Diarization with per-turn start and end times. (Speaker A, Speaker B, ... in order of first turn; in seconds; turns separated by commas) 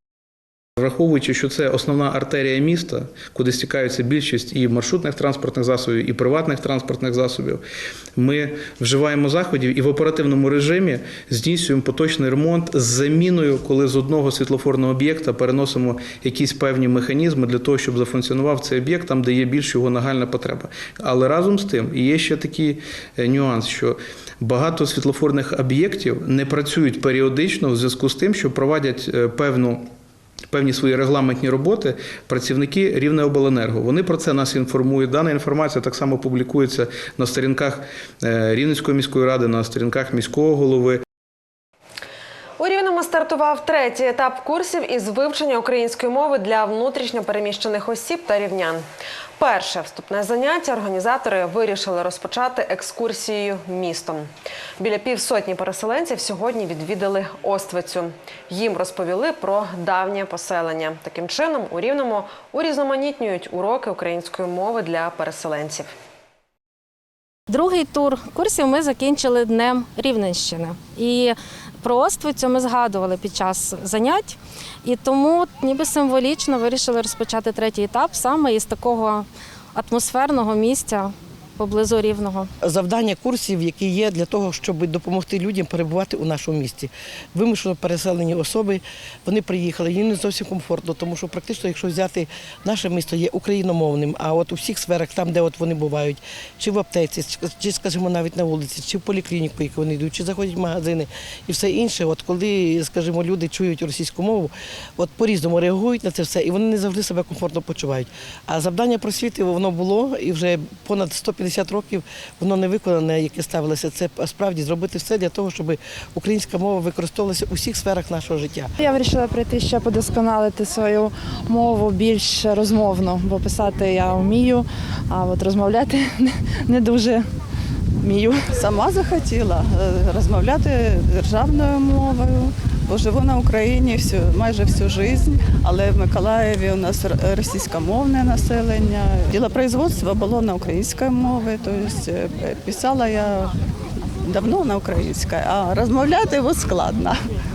Speaker A: 0.8-7.6, Speaker A: 8.2-29.8, Speaker A: 30.5-41.0, Speaker B: 42.6-48.8, Speaker B: 49.4-65.9, Speaker C: 67.5-82.5, Speaker D: 82.6-118.7, Speaker E: 118.8-127.3, Speaker E: 128.0-128.4, Speaker F: 128.6-143.5, Speaker F: 144.2-147.2